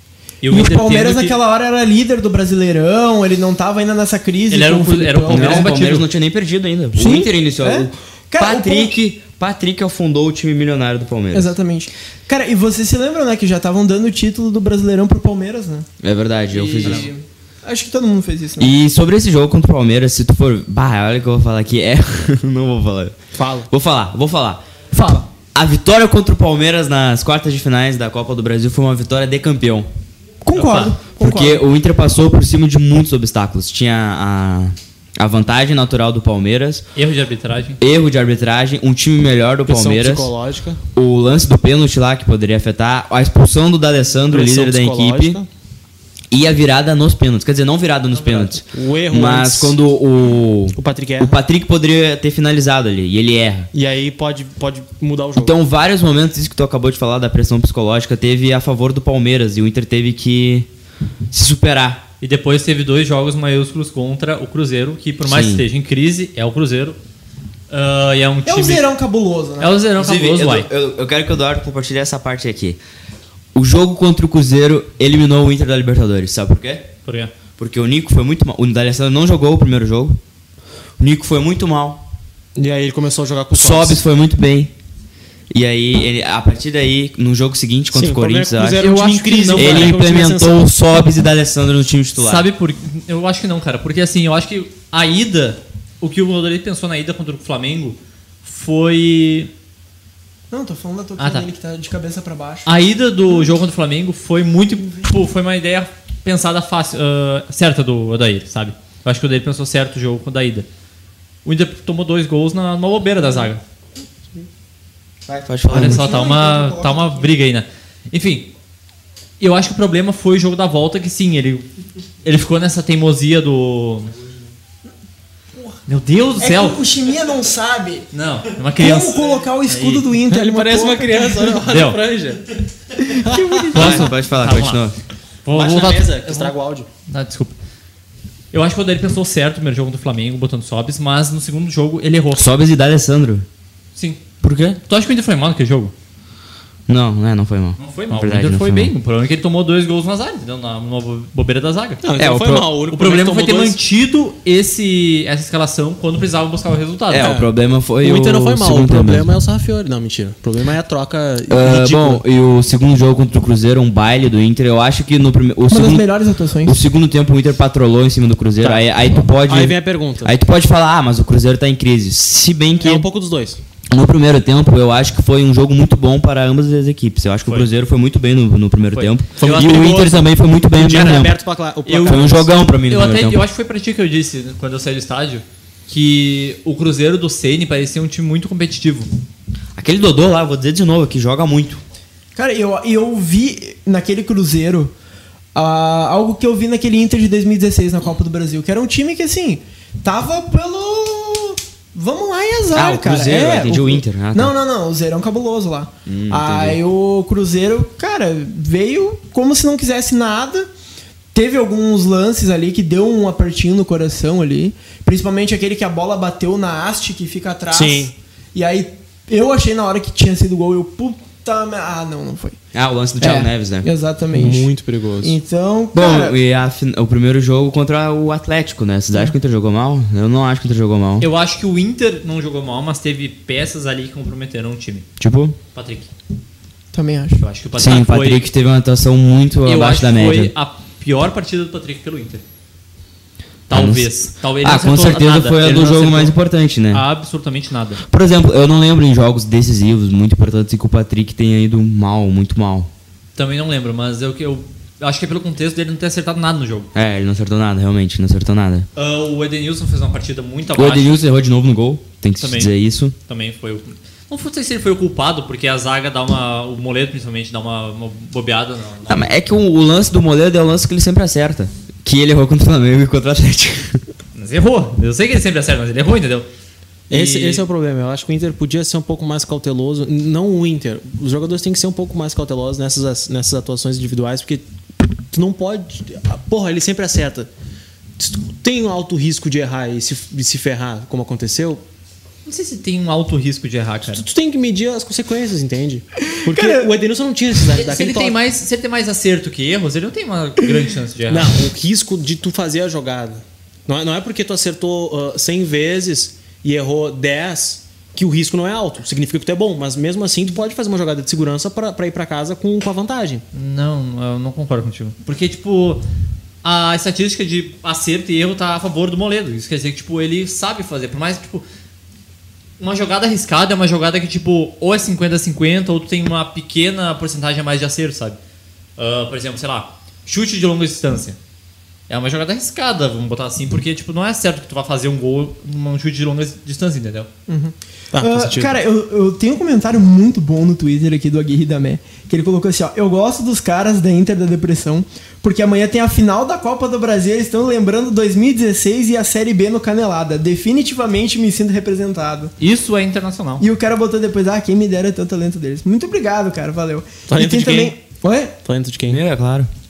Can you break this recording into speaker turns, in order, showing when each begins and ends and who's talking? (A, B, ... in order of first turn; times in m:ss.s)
0:00.4-0:01.4 A
0:00.5-0:05.7 B
0:04.5-0:06.1 A
0:05.3-0:11.5 C
0:06.9-0:09.0 B
0:11.3-0:15.9 B
0:16.0-0:17.1 C
0:16.5-0:18.7 B
0:18.6-0:23.2 C
0:23.4-0:23.7 D
0:23.7-0:24.6 C
0:24.9-0:25.3 B
0:25.5-0:29.9 C
0:30.4-0:31.6 B
0:30.5-0:30.9 A
0:30.6-0:36.8 C
0:37.0-0:37.8 A
0:37.8-0:40.3 C
0:39.7-0:40.8 D
0:40.9-0:45.4 C
0:44.3-0:45.5 D
0:46.3-0:53.7 C
0:48.1-0:49.8 D
0:50.8-0:51.4 D
0:53.7-0:55.6 D
0:55.4-1:00.7 C
1:01.3-1:02.0 C
1:02.2-1:07.0 A
1:05.2-1:05.6 C
1:07.7-1:08.8 A
1:08.4-1:09.8 B
1:09.6-1:10.7 A
1:10.0-1:12.8 C
1:13.5-1:16.9 C
1:17.0-1:17.3 A
1:17.6-1:20.2 C
1:21.0-1:22.0 C
1:22.6-1:24.0 D
1:23.5-1:24.7 C
1:25.5-1:28.9 C
1:27.9-1:30.6 D
1:28.8-1:29.7 B
1:29.0-1:30.0 A
1:29.5-1:32.4 C
1:32.2-1:39.5 A
1:40.5-1:42.7 B
1:41.2-1:41.5 A
1:42.6-1:50.7 A
1:51.4-1:53.6 A
1:55.2-1:56.2 C
1:55.7-1:58.5 A
1:55.7-1:57.2 B
1:59.4-2:01.7 A
2:02.2-2:04.1 A
2:05.9-2:06.8 A
2:06.4-2:08.1 B
2:08.1-2:10.1 A
2:08.8-2:11.6 B
2:10.3-2:12.5 D
2:11.6-2:12.0 A
2:13.0-2:14.1 B
2:13.2-2:13.7 D
2:13.7-2:14.8 A
2:13.7-2:15.0 C
2:15.4-2:16.5 A
2:15.5-2:16.9 D
2:17.1-2:17.6 A
2:18.5-2:22.5 A
2:22.4-2:23.4 C
2:24.0-2:24.2 A
2:24.4-2:24.8 C
2:24.8-2:25.9 A
2:26.9-2:28.9 C
2:27.8-2:32.0 A
2:32.0-2:33.8 D
2:32.2-2:32.7 C
2:32.9-2:37.4 A
2:37.1-2:39.3 C
2:37.1-2:42.2 D
2:41.5-2:46.1 C
2:45.7-2:46.8 B
2:46.6-2:53.1 C
2:49.4-2:50.4 D
2:52.8-2:53.6 D
2:53.9-3:01.4 C
2:58.9-3:00.2 A
2:59.4-2:59.9 D
3:00.8-3:02.5 D
3:01.9-3:09.1 A
3:02.0-3:03.4 C
3:09.8-3:11.8 C
3:12.4-3:14.9 B
3:15.5-3:30.7 B
3:22.7-3:24.5 C
3:26.0-3:26.8 C
3:31.3-3:42.6 B
3:37.7-3:38.1 D
3:42.7-3:43.9 C
3:43.2-3:44.7 B
3:44.3-3:45.4 D
3:45.2-3:46.4 B
3:45.9-3:51.3 C
3:51.2-3:55.1 A
3:55.2-3:55.6 C
3:55.7-3:56.1 A
3:56.9-3:57.4 B
3:57.4-3:58.5 A
3:57.8-4:00.5 C
3:59.6-4:02.4 A
4:03.7-4:06.4 A
4:03.7-4:07.0 C
4:06.9-4:08.0 A
4:08.1-4:12.9 C
4:13.4-4:16.9 A
4:16.9-4:18.9 C
4:19.0-4:21.2 A
4:20.8-4:23.1 C
4:22.4-4:29.3 A
4:29.1-4:34.0 C
4:34.4-4:36.5 A
4:37.1-4:37.6 A
4:37.1-4:44.6 D
4:45.3-4:47.5 D
4:48.2-4:51.8 D
4:52.4-4:54.2 A
4:54.1-4:58.4 D
4:56.4-4:56.9 B
4:57.8-5:01.6 A
5:01.3-5:13.4 D
5:13.5-5:16.0 A
5:16.6-5:21.6 A
5:22.8-5:28.4 A
5:29.0-5:31.4 A
5:32.1-5:37.3 A
5:37.5-5:52.5 B
5:38.1-5:38.8 D
5:52.6-5:53.6 A
5:53.6-5:58.5 B
5:57.3-5:58.0 D
5:58.6-5:59.2 D
5:59.1-5:59.7 C